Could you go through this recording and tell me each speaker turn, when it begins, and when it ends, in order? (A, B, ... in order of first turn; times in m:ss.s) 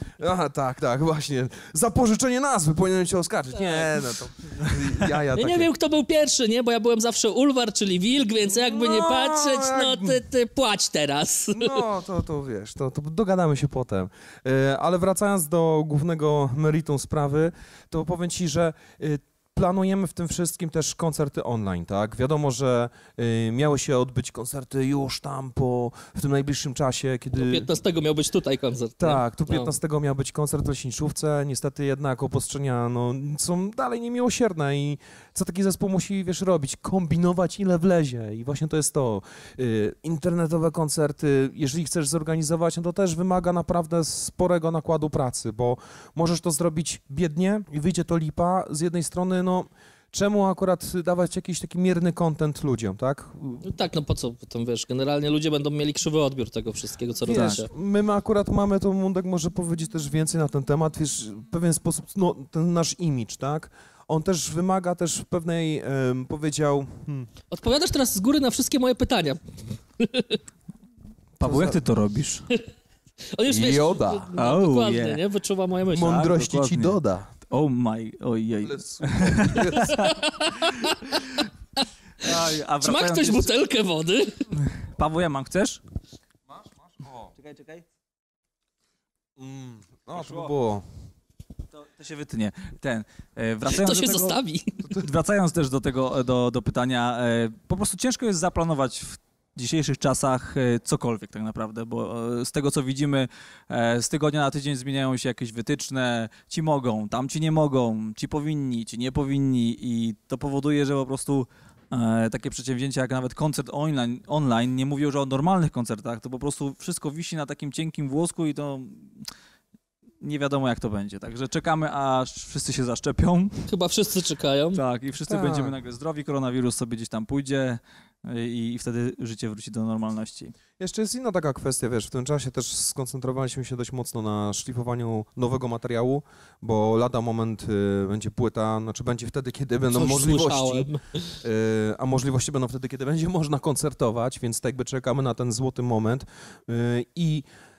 0:00.2-0:05.7 A
0:03.5-0:03.9 B
0:05.3-0:11.8 B
0:08.6-0:10.2 A
0:11.5-0:27.7 A
0:27.3-0:29.7 B
0:29.0-0:53.7 A
0:53.6-0:57.7 B
0:57.2-1:07.3 A
1:07.5-1:09.4 B
1:10.0-1:10.4 B
1:11.4-1:11.8 A
1:11.4-1:12.4 C
1:13.3-1:16.2 B
1:13.5-1:14.3 A
1:14.3-1:15.2 C
1:15.9-1:17.3 A
1:16.0-1:17.0 C
1:17.5-1:20.7 C
1:18.6-1:20.1 A
1:19.5-1:21.4 B
1:22.2-1:23.5 C
1:22.8-1:24.4 B
1:24.8-1:25.8 C
1:26.6-1:27.3 A
1:27.4-1:27.8 C
1:29.4-1:30.8 A
1:30.1-1:30.5 C
1:31.8-1:34.4 C
1:33.7-1:34.8 B
1:34.9-1:59.3 C
2:00.2-2:03.7 C
2:03.7-2:04.8 B
2:04.7-2:10.5 C
2:05.3-2:05.8 A
2:10.8-2:20.9 A
2:19.9-2:21.3 B
2:21.4-2:27.4 A